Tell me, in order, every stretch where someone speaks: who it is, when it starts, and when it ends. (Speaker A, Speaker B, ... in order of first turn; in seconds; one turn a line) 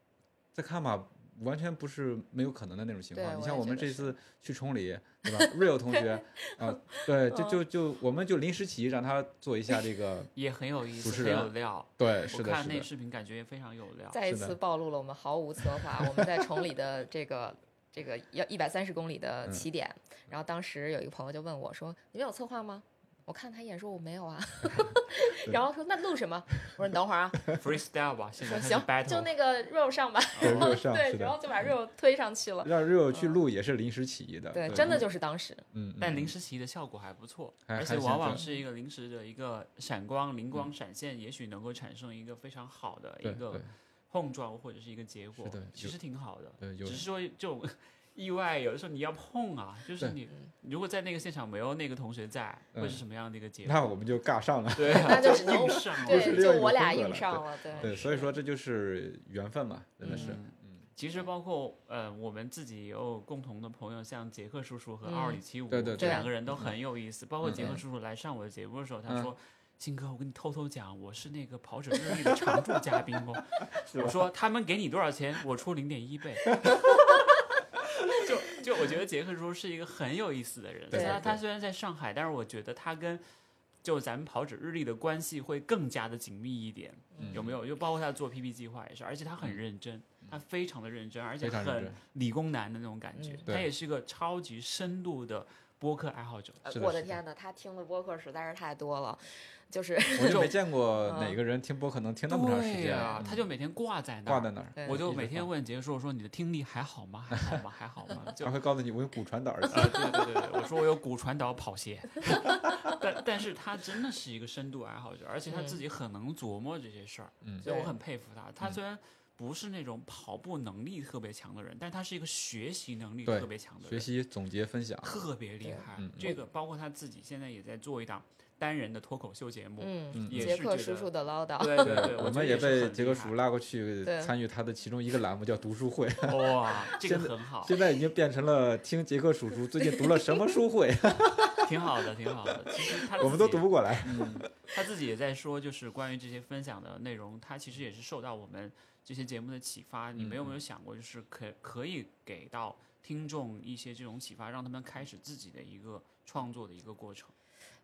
Speaker A: 0.5-10.3
Speaker B: 3.1-4.1
Speaker B: 5.2-7.6
Speaker C: 10.3-14.2
Speaker A: 10.9-12.9
Speaker B: 14.1-27.6
Speaker A: 14.3-14.6
Speaker A: 16.0-16.5
Speaker C: 27.5-29.3
Speaker B: 28.4-33.4
Speaker C: 30.3-30.8
Speaker A: 30.4-31.7
Speaker A: 32.6-35.0
Speaker B: 34.5-35.6
Speaker C: 34.7-35.0
Speaker A: 35.7-36.3
Speaker C: 36.0-53.8
Speaker A: 37.7-38.4
Speaker B: 38.3-38.6
Speaker A: 43.2-43.6
Speaker A: 45.4-45.9
Speaker A: 46.6-47.0
Speaker A: 52.7-53.0
Speaker A: 53.6-60.8
Speaker C: 54.7-56.6
Speaker B: 55.0-58.3
Speaker C: 57.7-58.1
Speaker B: 60.0-60.4
Speaker C: 60.0-83.2
Speaker B: 65.0-65.4
Speaker A: 65.7-66.7
Speaker B: 66.0-66.3
Speaker A: 67.4-67.8
Speaker A: 72.1-72.4
Speaker A: 73.8-74.2
Speaker A: 80.9-81.4
Speaker B: 80.9-81.2
Speaker C: 83.8-96.6
Speaker B: 87.1-87.5
Speaker A: 87.2-87.5
Speaker A: 91.4-92.0
Speaker B: 93.2-93.5
Speaker B: 96.6-101.4
Speaker A: 96.7-97.2
Speaker A: 100.2-103.5
Speaker C: 100.2-100.5
Speaker C: 102.3-108.6
Speaker B: 103.0-103.3
Speaker A: 104.2-105.5
Speaker B: 104.8-105.0
Speaker A: 108.3-110.3
Speaker C: 109.7-124.1
Speaker B: 115.5-115.8
Speaker B: 117.6-117.9
Speaker A: 123.2-125.2
Speaker C: 125.0-133.3
Speaker B: 125.6-126.4
Speaker A: 126.0-126.4
Speaker B: 129.8-132.3
Speaker A: 130.1-130.6
Speaker A: 131.8-141.8
Speaker B: 134.0-134.3
Speaker C: 136.3-137.8
Speaker B: 139.8-140.1
Speaker C: 141.6-157.3
Speaker A: 142.5-144.7
Speaker A: 150.2-150.6